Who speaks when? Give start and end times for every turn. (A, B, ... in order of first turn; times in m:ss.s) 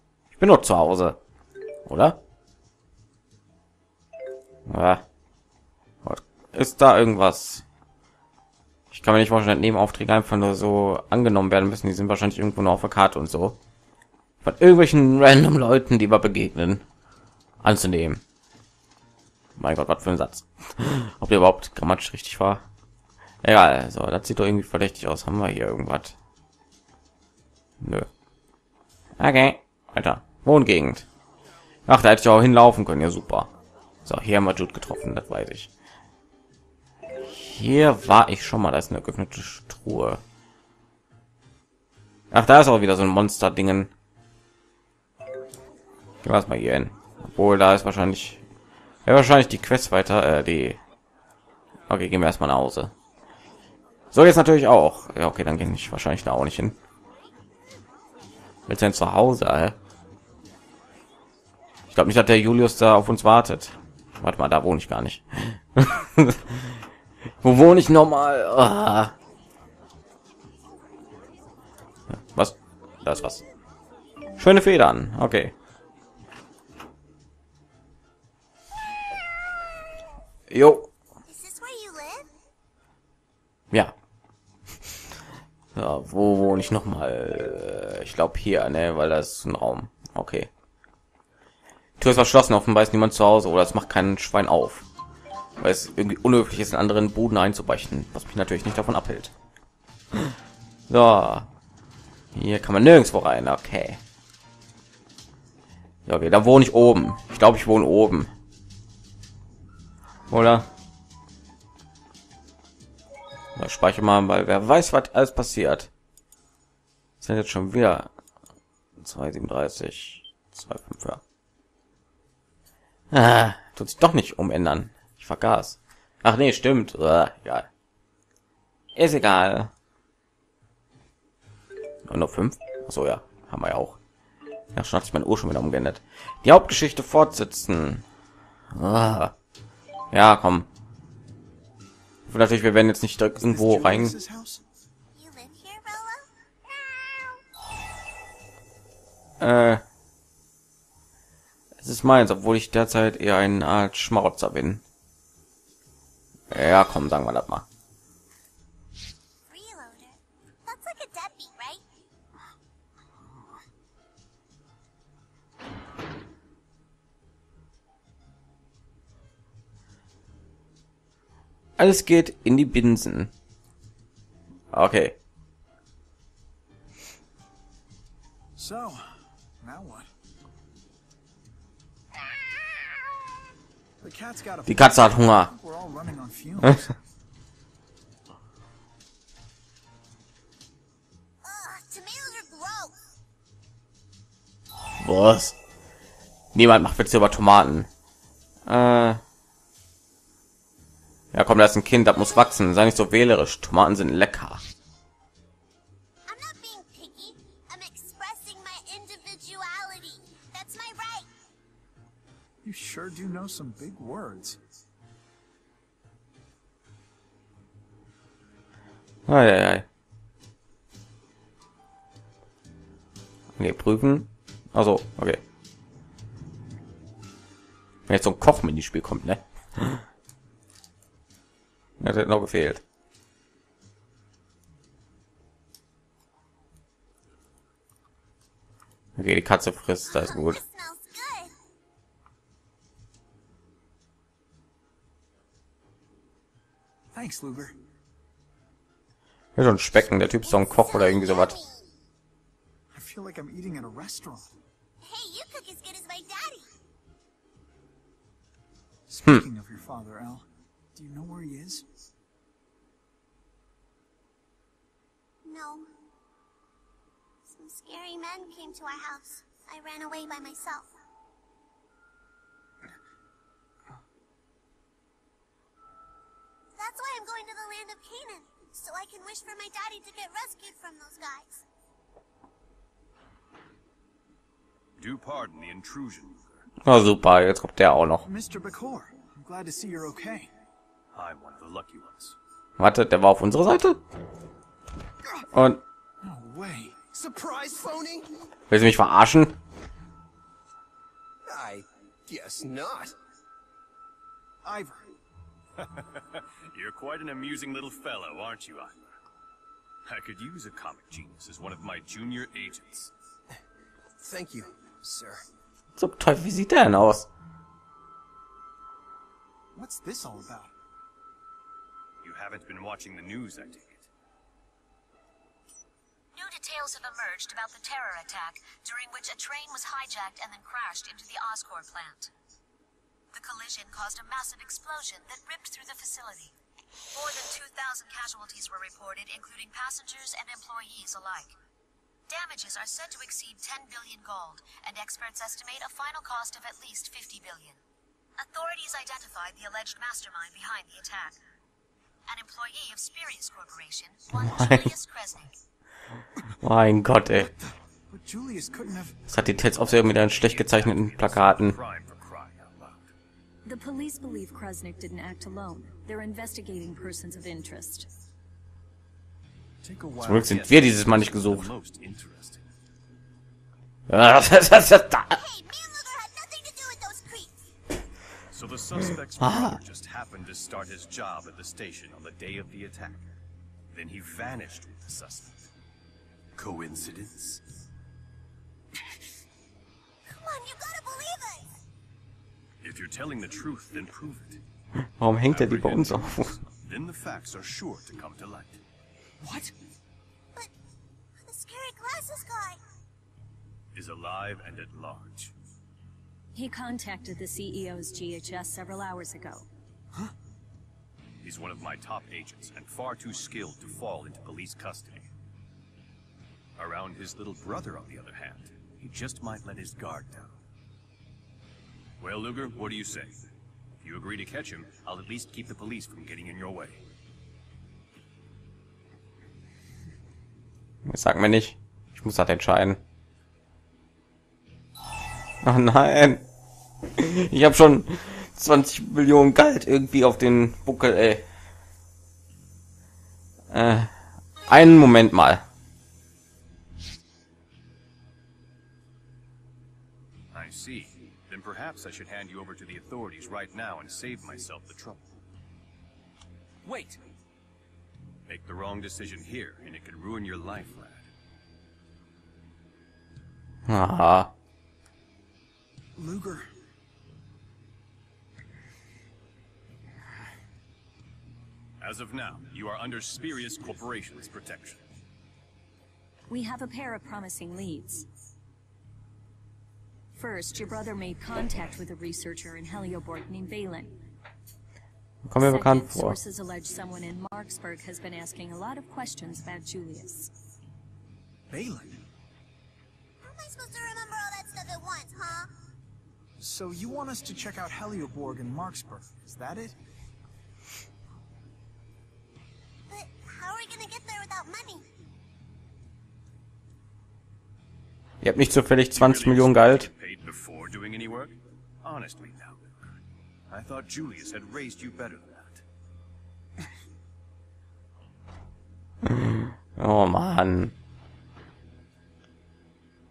0:00.3-0:01.2 A
0:01.8-0:02.2 A
0:04.7-0:05.0 A
0:06.0-0:07.6 A
0:08.9-0:13.6 A
0:14.4-0:16.8 A
0:17.6-0:18.2 A
0:19.6-0:22.6 A
0:23.4-0:26.2 A
0:27.8-0:28.1 A
0:29.2-0:31.0 A
0:31.9-0:33.5 A
0:34.0-0:35.7 A
0:37.3-0:40.2 A
0:42.3-0:43.9 A
0:46.2-0:48.4 A
0:49.0-0:50.8 A
0:51.9-0:52.9 A
0:54.1-0:56.8 A
0:58.7-0:59.8 A
1:01.9-1:06.8 A
1:07.4-1:09.1 A
1:12.2-1:13.4 A
1:14.4-1:15.5 A
1:20.5-1:20.9 A
1:21.3-1:22.3 B
1:25.7-1:30.5 A
1:32.0-1:34.8 A
1:35.6-1:39.3 A
1:40.9-1:41.5 A
1:42.3-1:44.0 A
1:46.0-1:48.3 A
1:50.3-1:50.7 A
1:53.6-1:55.9 A
1:57.2-1:58.1 A
1:59.0-2:01.2 A
2:03.1-2:07.7 A
2:08.9-2:09.7 A
2:12.0-2:14.0 A
2:14.7-2:18.0 A
2:18.7-2:19.3 A
2:20.1-2:20.7 A
2:22.3-2:24.2 A
2:23.4-2:24.6 C
2:25.1-2:27.4 B
2:29.4-2:29.8 A
2:31.8-2:34.8 A
2:36.5-2:37.6 A
2:39.5-2:41.8 B
2:51.8-2:53.3 A
2:54.7-2:55.1 A
2:58.6-3:00.1 C
3:04.0-3:06.9 C
3:04.7-3:05.5 A
3:11.4-3:13.0 B
3:15.0-3:15.5 A
3:16.5-3:17.9 A
3:18.6-3:19.2 A
3:21.3-3:24.6 A
3:26.3-3:31.3 B
3:32.6-3:34.6 C
3:39.3-3:39.8 A
3:43.6-3:45.4 A
3:48.1-3:50.0 A
3:52.0-3:52.8 A
3:59.2-4:00.6 A
4:00.1-4:01.5 B
4:07.1-4:07.8 C
4:09.6-4:11.5 A
4:10.4-4:11.9 B
4:12.9-4:14.6 C
4:15.0-4:16.7 B
4:19.1-4:21.8 C
4:25.4-4:25.9 B
4:27.4-4:30.9 B
4:36.8-4:41.6 B
4:45.0-4:46.7 D
4:46.8-4:48.2 A
4:48.2-4:50.5 C
4:51.1-4:52.4 D
4:52.8-4:54.0 A
4:55.5-4:55.8 A
4:56.2-4:57.0 C
4:57.1-4:58.3 E
4:58.7-4:59.6 A
5:01.4-5:03.1 E
5:04.6-5:05.0 C
5:05.8-5:09.0 D
5:10.1-5:13.1 D
5:14.2-5:15.4 E
5:16.0-5:17.3 A
5:19.7-5:20.7 C
5:22.2-5:24.1 D
5:26.3-5:32.3 F
5:33.3-5:36.5 F
5:37.1-5:41.6 F
5:42.3-5:47.8 F
5:48.4-5:51.4 F
5:52.3-5:55.5 F
5:54.3-5:54.9 A
5:56.6-5:57.5 A
5:58.1-5:59.3 C
5:59.3-6:01.8 A
6:00.0-6:03.1 D
6:03.6-6:08.1 G
6:09.8-6:12.6 D
6:10.2-6:11.7 A
6:14.1-6:15.4 A
6:15.3-6:17.6 B
6:18.5-6:23.3 D
6:19.4-6:19.8 A
6:23.9-6:25.7 D
6:26.6-6:27.6 D
6:30.3-6:31.7 B
6:32.8-6:34.6 D
6:35.2-6:36.6 A
6:35.5-6:38.8 D
6:41.4-6:42.8 B
6:43.9-6:45.5 D
6:46.5-6:49.7 G
6:51.4-6:55.3 D
6:56.8-7:00.6 D
7:02.2-7:03.4 D
7:04.0-7:07.0 D
7:11.0-7:13.0 A
7:15.6-7:16.4 A
7:17.2-7:21.4 A
7:23.7-7:24.2 A
7:24.7-7:25.6 A
7:30.5-7:35.4 D
7:36.8-7:37.2 E
7:38.5-7:41.3 D
7:43.9-7:44.5 A
7:46.2-7:46.7 C
7:52.0-7:55.1 D
7:56.5-7:58.2 G
8:00.3-8:04.2 G
8:05.4-8:06.4 A
8:05.6-8:10.5 G
8:11.7-8:12.2 C
8:13.4-8:15.7 B
8:16.6-8:20.0 C
8:23.1-8:25.0 B
8:28.4-8:30.1 A
8:29.1-8:35.8 D
8:39.2-8:40.9 A